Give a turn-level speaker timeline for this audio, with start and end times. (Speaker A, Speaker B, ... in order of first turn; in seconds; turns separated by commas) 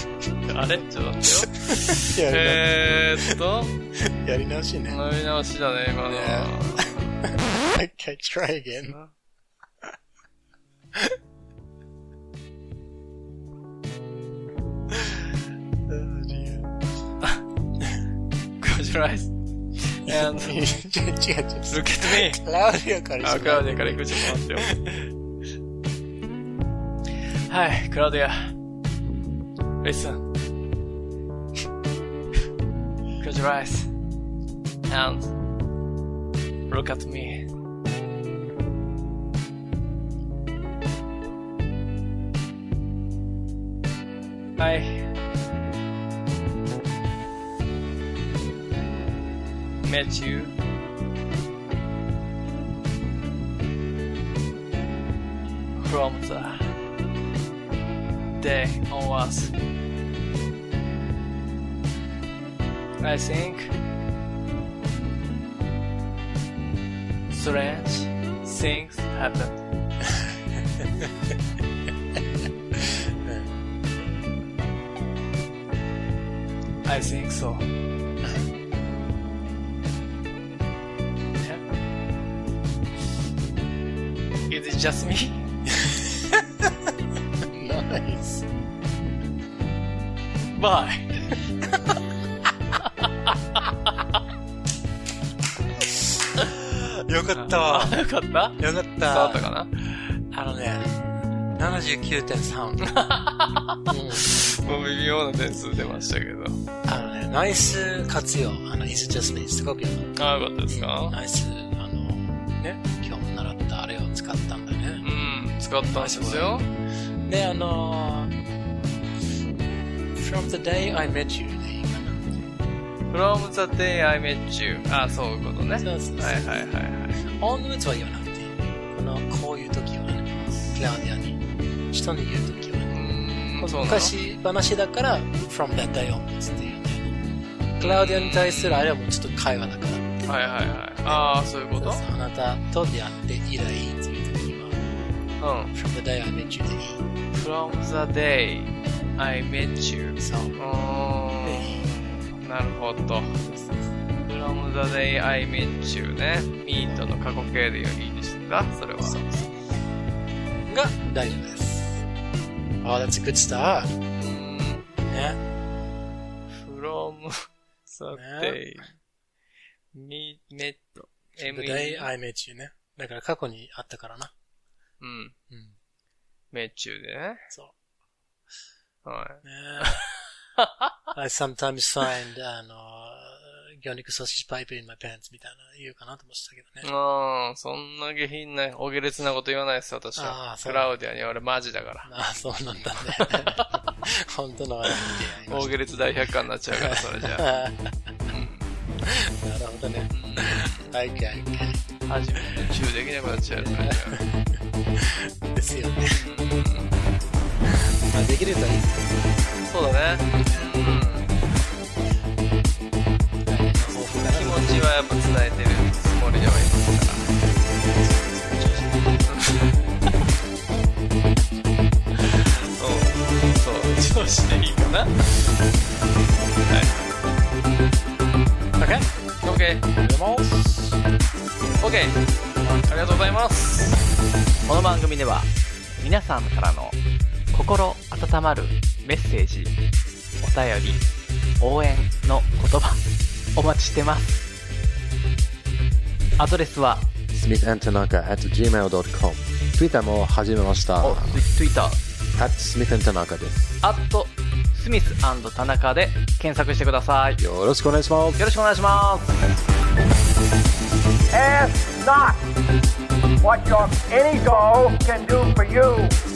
Speaker A: 0.5-3.7, Speaker B: 1.2-3.4, Speaker B: 3.9-5.0, Speaker A: 4.9-7.2, Speaker B: 6.1-9.0, Speaker A: 8.9-9.1, Speaker B: 15.9-16.7, Speaker A: 18.6-20.6, Speaker B: 20.1-25.1, Speaker A: 21.7-22.4, Speaker A: 23.2-24.7, Speaker A: 27.5-28.6, Speaker A: 29.8-30.2, Speaker A: 33.2-33.9, Speaker A: 34.9-35.3, Speaker A: 36.7-37.5, Speaker A: 44.6-45.1, Speaker A: 49.8-50.5, Speaker A: 55.8-56.7, Speaker A: 58.3-59.5, Speaker A: 63.0-63.7, Speaker A: 67.3-69.6, Speaker B: 70.0-71.3, Speaker B: 72.7-73.5, Speaker A: 76.8-77.7, Speaker B: 78.2-78.5, Speaker A: 84.5-85.5, Speaker B: 85.7-86.9, Speaker B: 87.4-88.5, Speaker A: 90.5-92.0, Speaker A: 92.8-93.6, Speaker B: 95.9-98.0, Speaker A: 97.3-99.7, Speaker B: 98.6-99.5, Speaker B: 100.3-101.0, Speaker B: 101.5-102.9, Speaker A: 102.8-106.6, Speaker B: 103.9-104.3, Speaker B: 106.8-110.1, Speaker A: 110.2-111.2, Speaker B: 110.7-115.0, Speaker A: 115.0-116.7, Speaker B: 115.9-116.7, Speaker B: 117.2-118.3, Speaker B: 120.1-122.3, Speaker A: 123.1-127.2, Speaker B: 125.8-133.0, Speaker A: 132.9-134.1, Speaker B: 133.6-137.2, Speaker B: 137.7-140.1, Speaker A: 137.8-138.9, Speaker A: 140.2-142.0, Speaker B: 141.0-144.8, Speaker A: 145.4-145.7, Speaker B: 145.7-147.0, Speaker A: 147.3-153.4, Speaker B: 150.2-150.6, Speaker B: 151.4-151.9, Speaker B: 153.4-153.9, Speaker A: 154.2-159.2, Speaker B: 159.0-159.7, Speaker B: 160.7-162.0, Speaker B: 162.8-163.9, Speaker A: 164.2-164.9, Speaker B: 165.0-165.4, Speaker A: 166.5-168.9, Speaker B: 168.1-168.9, Speaker A: 169.9-172.1, Speaker B: 171.4-174.3, Speaker A: 175.0-175.3, Speaker B: 175.5-175.7, Speaker A: 176.5-177.5, Speaker A: 179.0-180.9, Speaker B: 179.4-180.0, Speaker B: 181.1-186.9, Speaker A: 186.8-192.1, Speaker B: 190.2-190.9, Speaker B: 192.0-195.9, Speaker A: 193.2-194.0, Speaker A: 195.1-197.5, Speaker B: 196.7-198.3, Speaker A: 198.2-198.8, Speaker B: 199.0-201.8, Speaker A: 200.1-200.9, Speaker A: 202.1-204.2, Speaker B: 202.4-202.7, Speaker B: 203.5-206.2, Speaker A: 206.0-207.0, Speaker B: 207.7-209.0, Speaker A: 209.7-211.3, Speaker B: 210.4-210.8, Speaker B: 213.4-214.9, Speaker A: 214.3-217.3, Speaker B: 217.7-219.3, Speaker A: 219.2-220.2, Speaker A: 222.2-225.5, Speaker A: 226.7-227.1, Speaker B: 228.8-229.1, Speaker A: 229.4-229.9, Speaker B: 230.0-230.9, Speaker A: 231.8-232.2, Speaker A: 232.8-234.0, Speaker C: 234.6-237.0, Speaker C: 237.5-239.8, Speaker C: 240.4-241.1, Speaker C: 241.6-244.5, Speaker C: 246.4-247.1, Speaker D: 247.3-251.4, Speaker C: 251.0-252.0, Speaker D: 252.3-253.7, Speaker C: 253.8-257.4, Speaker D: 257.4-258.4, Speaker C: 258.4-259.4, Speaker E: 261.3-262.4, Speaker E: 263.4-266.2